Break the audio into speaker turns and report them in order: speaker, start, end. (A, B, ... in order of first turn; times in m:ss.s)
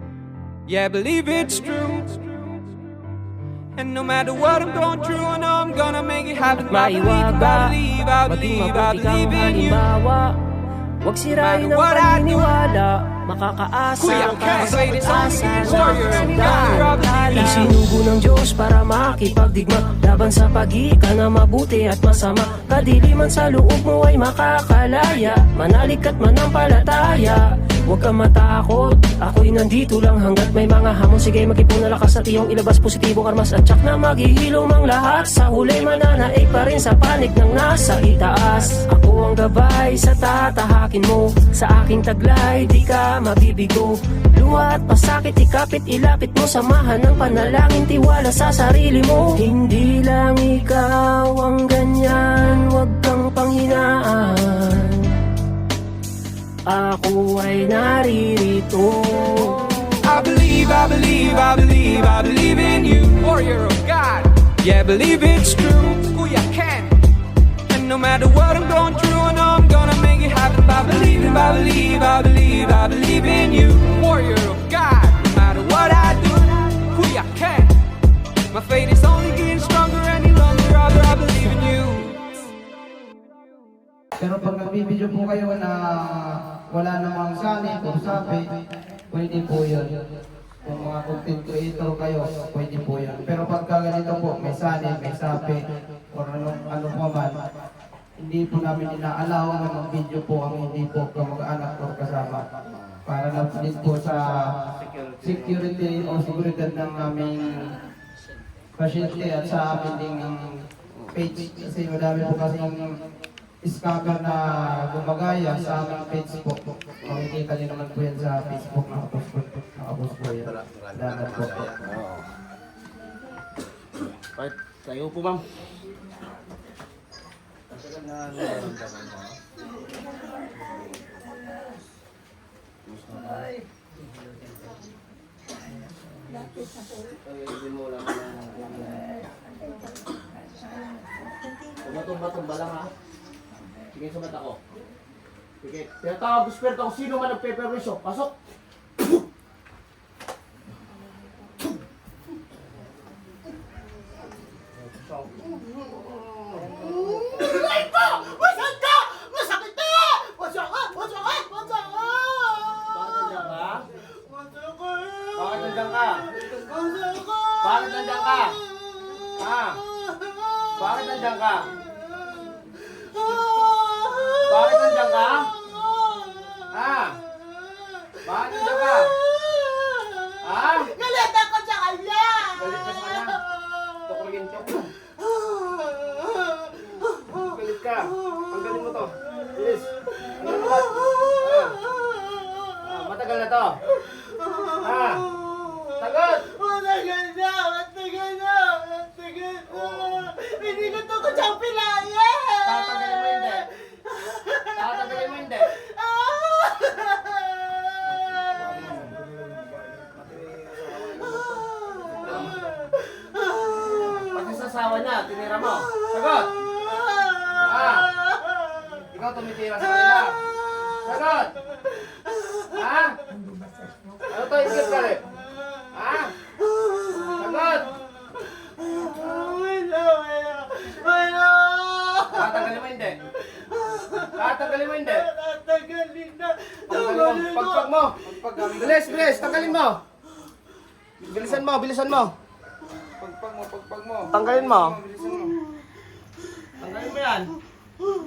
0:00.7-0:03.0 A
0:03.8-0:09.9 A
0:06.7-0:10.3 B
0:11.0-0:55.1 B
0:11.4-0:12.6 A
0:14.0-0:17.8 A
0:56.7-0:59.9 B
1:00.0-1:07.0 A
1:07.7-1:17.7 A
1:18.5-1:22.4 A
1:24.2-1:28.4 C
1:29.1-1:29.9 C
1:30.6-1:37.4 C
1:38.2-1:42.5 C
1:42.7-1:43.0 D
1:43.0-1:44.3 C
1:44.6-1:46.3 D
1:45.2-1:47.7 C
1:48.8-1:50.5 C
1:50.9-1:51.2 D
1:51.1-1:52.9 C
1:53.6-2:01.8 C
2:01.8-2:02.3 D
2:04.4-2:05.4 D
2:07.7-2:09.4 D
2:10.5-2:11.1 D
2:12.8-2:13.5 D
2:17.0-2:19.1 D
2:21.8-2:22.9 D
2:23.9-2:24.6 D
2:25.6-2:28.3 D
2:34.7-2:38.8 D
2:37.5-2:42.8 E
2:42.9-2:43.8 D
2:44.1-2:47.6 E
2:45.3-2:46.2 D
2:47.6-2:48.6 D
2:49.4-2:49.8 D
2:50.0-2:50.7 E
2:50.8-2:51.7 D
2:52.7-2:54.5 E
2:54.4-2:55.5 D
2:55.7-2:56.7 E
2:56.7-2:57.2 D
2:57.7-3:00.4 E
2:58.2-2:59.1 D
3:00.4-3:01.0 D
3:01.0-3:02.7 E
3:02.5-3:03.4 D
3:03.5-3:04.0 E
3:04.1-3:04.9 D
3:05.2-3:07.4 E
3:07.4-3:11.8 D
3:10.1-3:12.8 E
3:12.8-3:13.8 D
3:13.9-3:23.4 E
3:14.7-3:15.3 D
3:15.9-3:16.5 D
3:19.7-3:20.1 D
3:22.6-3:23.7 D
3:23.9-3:24.7 E
3:24.7-3:25.7 D
3:25.7-3:28.5 E
3:28.6-3:29.1 D
3:30.1-3:31.3 D
3:31.9-3:33.9 E
3:32.2-3:32.6 D
3:34.1-3:36.5 D
3:36.9-3:37.7 E
3:37.6-3:38.1 D
3:38.2-3:39.0 E
3:39.1-3:40.4 D
3:41.0-3:41.5 D
3:42.2-3:42.7 E
3:42.7-3:43.2 D
3:44.2-3:45.2 D
3:45.9-3:46.3 D
3:46.6-3:47.4 E
3:47.1-3:47.9 D
3:48.2-3:52.6 E
3:52.3-3:53.2 D
3:53.5-3:57.8 E
3:54.3-3:55.3 D
3:56.9-3:58.2 D
3:58.2-3:59.8 C
3:58.7-4:00.0 D
4:01.2-4:02.3 D
4:03.2-4:05.5 C
4:04.3-4:05.0 D
4:06.8-4:07.5 D